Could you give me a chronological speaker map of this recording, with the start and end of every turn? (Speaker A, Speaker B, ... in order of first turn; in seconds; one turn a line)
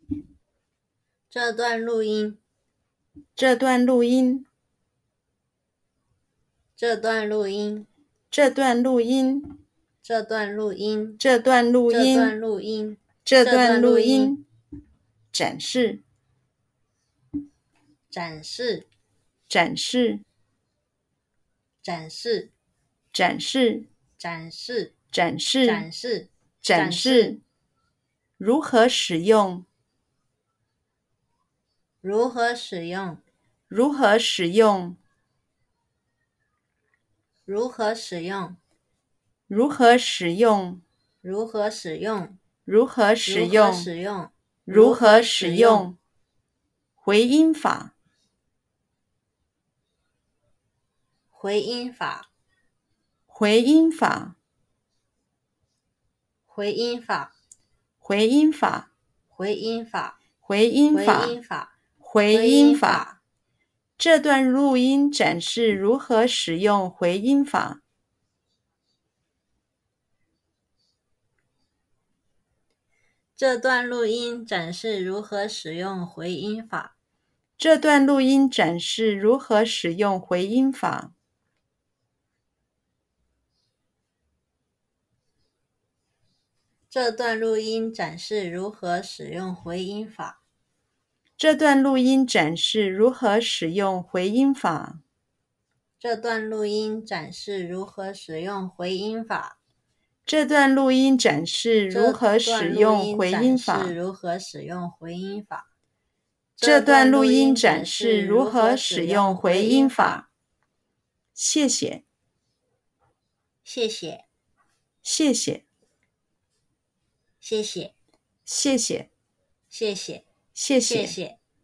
Speaker A: 1.3-2.4
Speaker B: 3.4-4.5
Speaker A: 6.8-7.9
Speaker B: 8.3-9.6
Speaker A: 10.0-11.2
Speaker B: 11.2-12.3
Speaker A: 11.9-14.3
Speaker B: 13.2-14.4
Speaker B: 15.3-16.0
Speaker A: 18.1-18.9
Speaker B: 19.5-20.2
Speaker A: 21.8-22.5
Speaker B: 23.1-23.9
Speaker A: 24.2-24.9
Speaker B: 25.1-25.9
Speaker A: 25.6-27.3
Speaker B: 26.6-27.4
Speaker B: 28.4-29.7
Speaker A: 32.0-33.2
Speaker B: 33.7-35.0
Speaker A: 37.5-38.6
Speaker B: 39.5-40.8
Speaker A: 41.2-42.4
Speaker B: 42.7-43.9
Speaker A: 43.3-45.9
Speaker B: 44.7-46.0
Speaker B: 47.0-47.9
Speaker A: 51.3-52.3
Speaker B: 53.3-54.4
Speaker A: 56.5-57.3
Speaker B: 58.0-58.9
Speaker A: 59.3-60.2
Speaker B: 60.4-61.4
Speaker A: 60.9-61.7
Speaker B: 62.0-63.0
Speaker A: 62.3-63.2
Speaker B: 64.0-67.8
Speaker A: 73.4-76.9
Speaker B: 77.6-81.1
Speaker A: 86.9-90.4
Speaker B: 91.4-95.0
Speaker A: 96.0-99.6
Speaker B: 100.3-104.0
Speaker A: 101.9-105.7
Speaker A: 106.6-110.2
Speaker B: 106.6-110.2
Speaker B: 111.4-112.0
Speaker A: 113.7-114.2
Speaker B: 115.0-115.6
Speaker A: 117.4-117.9
Speaker B: 118.5-119.1
Speaker A: 119.7-120.2
Speaker B: 120.5-121.2
Speaker A: 120.8-121.4